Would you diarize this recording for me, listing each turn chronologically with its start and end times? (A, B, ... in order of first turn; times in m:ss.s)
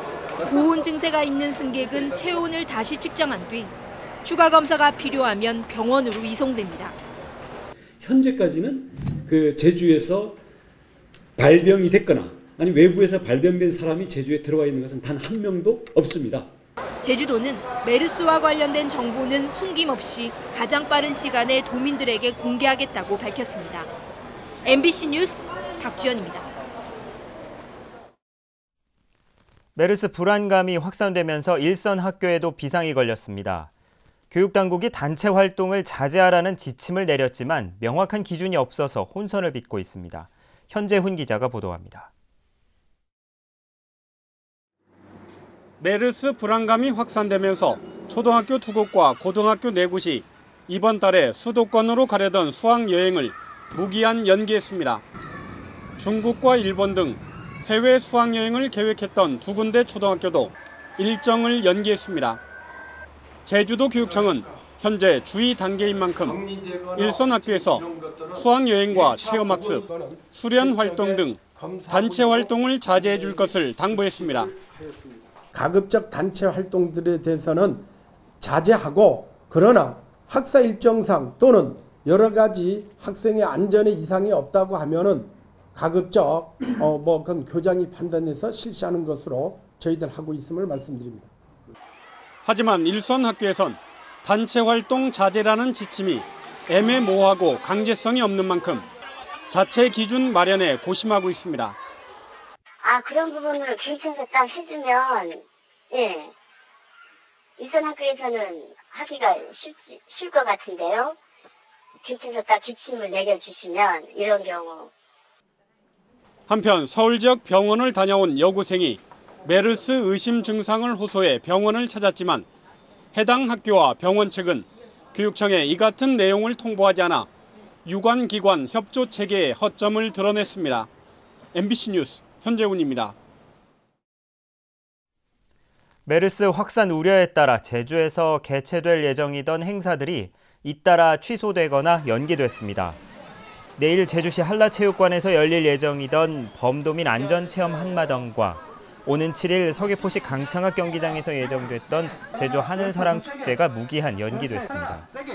0:00.4-0:03.7 A
0:04.2-0:07.0 A
0:08.0-0:10.3 B
0:11.4-0:16.4 B
0:17.0-0:23.9 A
0:24.6-0:26.4 A
0:29.7-0:33.7 C
0:34.3-0:42.1 C
0:45.8-0:55.0 D
0:56.0-1:02.4 D
1:03.4-1:06.4 D
1:04.0-1:04.4 E
1:06.1-1:17.8 E
1:07.0-1:14.5 D
1:18.4-1:31.3 E
1:32.4-1:38.8 D
1:39.5-1:41.8 D
1:42.8-1:46.3 F
1:47.6-1:51.2 F
1:52.0-1:54.9 F
1:56.5-2:02.4 D
2:03.1-2:07.3 D
2:07.8-2:10.9 D
2:11.5-2:13.1 D
2:16.0-2:23.0 C
2:23.8-2:35.1 C